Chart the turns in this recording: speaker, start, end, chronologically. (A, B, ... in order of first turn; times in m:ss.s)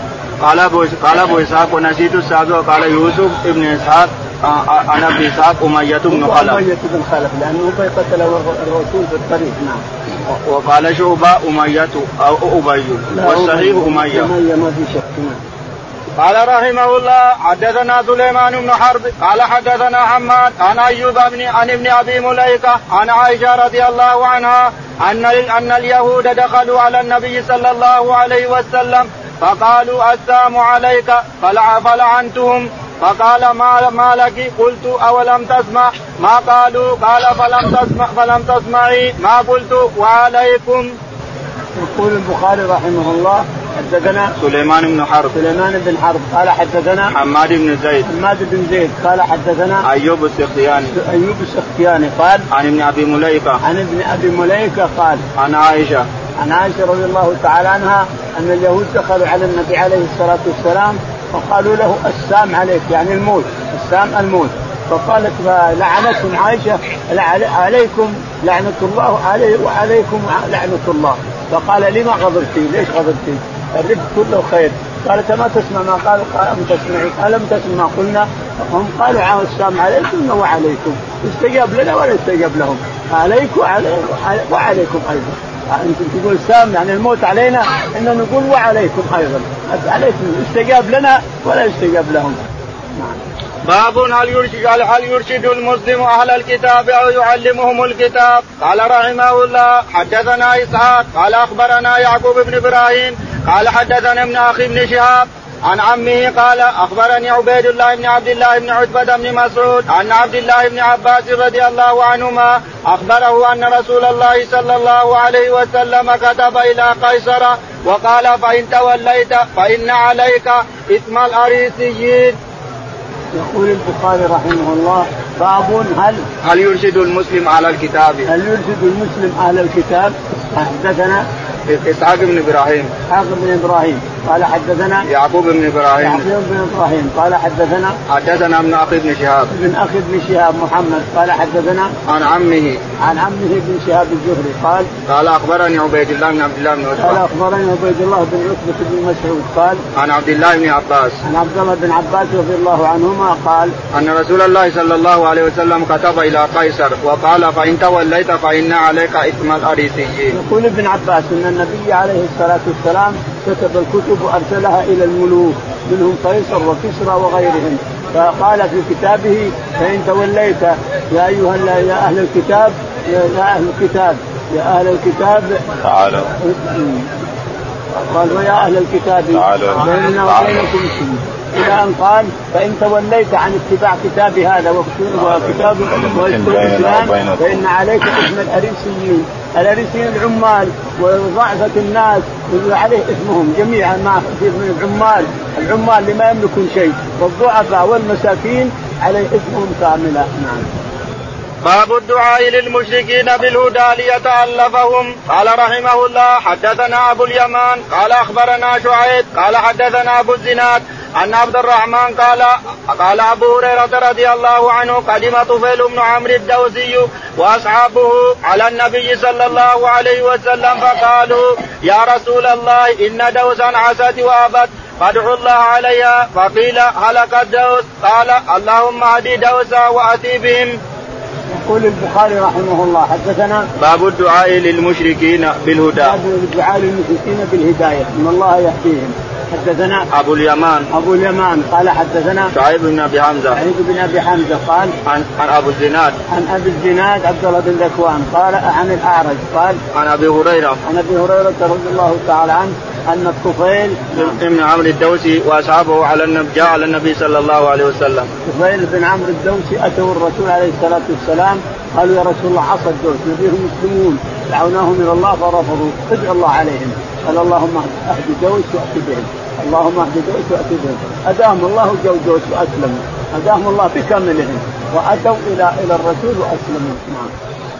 0:00.4-0:06.6 A
0:06.1-0:09.8 B
0:10.3-0:14.3 A
0:13.1-0:15.4 B
0:16.2-0:40.9 A
0:41.8-0:44.3 B
0:44.4-0:45.3 A
0:45.3-0:47.1 B
0:47.1-0:48.1 A
0:48.0-0:49.8 B
0:49.8-0:50.9 A
0:50.9-0:52.5 B
0:52.5-0:53.6 A
0:53.6-0:55.2 B
0:55.4-0:56.1 A
0:56.4-1:33.2 B
1:33.6-2:02.4 A
2:03.3-2:06.2 B
2:06.4-2:08.3 A
2:08.3-2:11.2 B
2:11.7-2:12.9 A
2:13.1-2:15.1 B
2:15.1-2:16.3 A
2:16.0-2:18.0 B
2:18.1-2:19.5 A
2:19.5-2:21.9 B
2:22.0-2:22.8 A
2:23.0-2:24.9 B
2:25.1-2:27.2 A
2:27.0-2:29.8 B
2:29.9-2:31.2 A
2:31.2-2:33.8 B
2:33.9-2:40.4 A
2:40.3-2:55.8 B
2:55.9-2:56.3 C
2:56.4-2:57.1 B
2:58.0-3:20.7 B
2:59.4-3:00.7 C
3:05.6-3:07.5 C
3:21.6-3:50.8 A
3:51.5-3:53.7 B
3:53.8-3:56.1 A
3:56.0-4:00.1 B
4:00.1-4:00.9 A
4:00.9-4:02.5 B
4:02.5-4:03.6 A
4:03.5-4:04.9 B
4:05.0-4:06.2 A
4:06.3-4:09.8 B
4:09.9-4:10.8 A
4:10.8-4:14.4 B
4:14.1-4:18.3 A
4:18.4-4:37.3 B